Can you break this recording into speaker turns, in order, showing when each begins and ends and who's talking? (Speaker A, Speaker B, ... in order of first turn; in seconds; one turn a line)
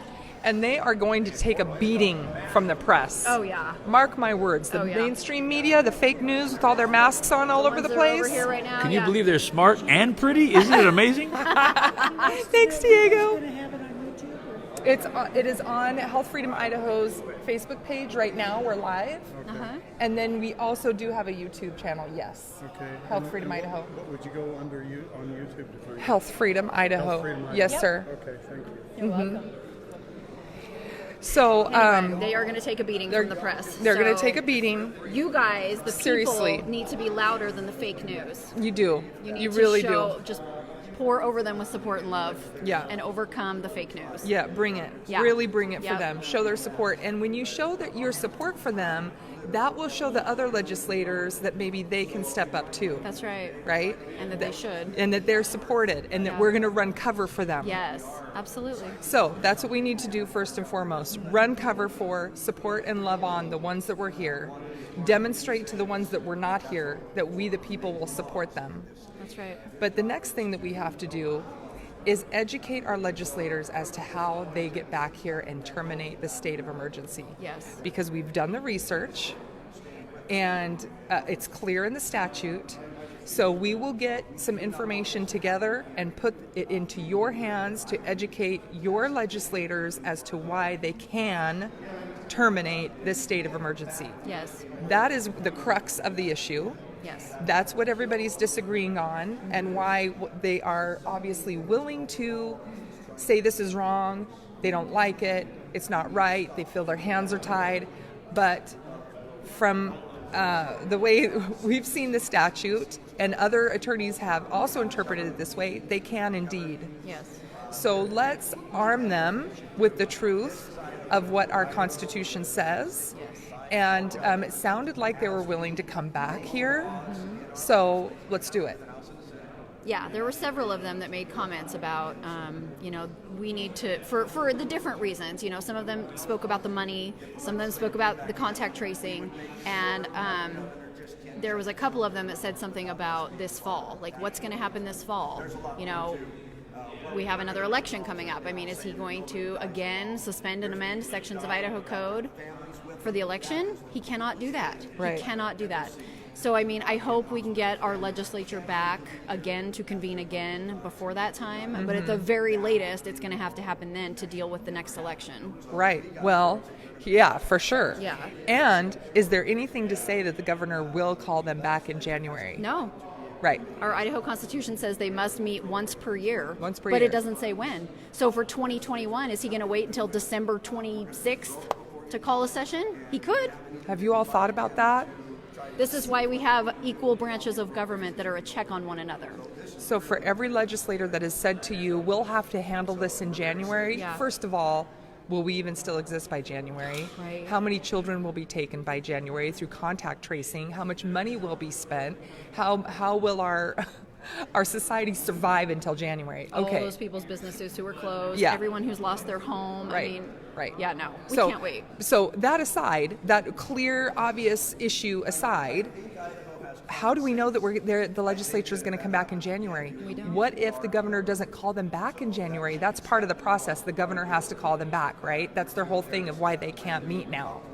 Speaker A: 0.4-8.4
Speaker B: 3.2-3.8
Speaker B: 4.7-5.1
Speaker B: 7.6-9.2
Speaker C: 8.8-11.5
Speaker B: 10.7-12.4
Speaker A: 11.3-13.5
Speaker A: 14.8-19.4
Speaker D: 19.4-19.7
Speaker B: 19.4-19.8
Speaker A: 20.0-23.9
Speaker D: 22.6-26.1
Speaker A: 26.0-28.1
Speaker D: 27.0-28.9
Speaker B: 27.6-27.9
Speaker B: 28.9-29.5
Speaker A: 29.0-29.4
Speaker A: 31.2-32.3
Speaker B: 31.7-34.4
Speaker A: 33.1-35.0
Speaker B: 35.0-38.5
Speaker A: 35.9-36.7
Speaker A: 38.5-40.2
Speaker B: 39.2-44.3
Speaker A: 42.6-42.9
Speaker A: 44.2-53.0
Speaker B: 45.1-46.0
Speaker B: 53.0-53.6
Speaker A: 53.6-57.8
Speaker B: 54.1-55.0
Speaker B: 56.2-56.5
Speaker B: 57.6-59.0
Speaker A: 59.0-68.9
Speaker B: 69.2-69.6
Speaker A: 69.8-71.5
Speaker A: 72.0-79.4
Speaker B: 77.4-77.8
Speaker A: 80.3-91.7
Speaker A: 92.3-94.2
Speaker B: 94.2-94.7
Speaker A: 94.8-96.8
Speaker B: 97.0-97.3
Speaker A: 97.4-102.6
Speaker A: 103.2-108.8
Speaker A: 109.4-116.9
Speaker B: 117.0-117.4
Speaker A: 117.7-123.1
Speaker B: 123.1-123.4
Speaker A: 123.7-126.9
Speaker B: 126.9-127.5
Speaker A: 127.5-128.8
Speaker B: 129.8-140.7
Speaker B: 141.3-146.2
Speaker B: 147.1-152.3
Speaker B: 153.0-165.6
Speaker A: 155.0-155.3
Speaker A: 161.7-162.3
Speaker A: 165.7-172.6
Speaker B: 168.0-168.3
Speaker B: 172.6-172.9
Speaker A: 173.4-173.7
Speaker B: 173.8-183.5
Speaker A: 176.6-177.2
Speaker A: 183.9-185.1
Speaker B: 185.8-189.4
Speaker A: 189.8-206.9
Speaker B: 193.9-194.2
Speaker B: 197.2-197.5
Speaker B: 206.5-211.9
Speaker A: 208.3-208.6
Speaker A: 209.9-210.8
Speaker A: 211.3-215.9
Speaker A: 216.9-227.6
Speaker B: 220.0-220.4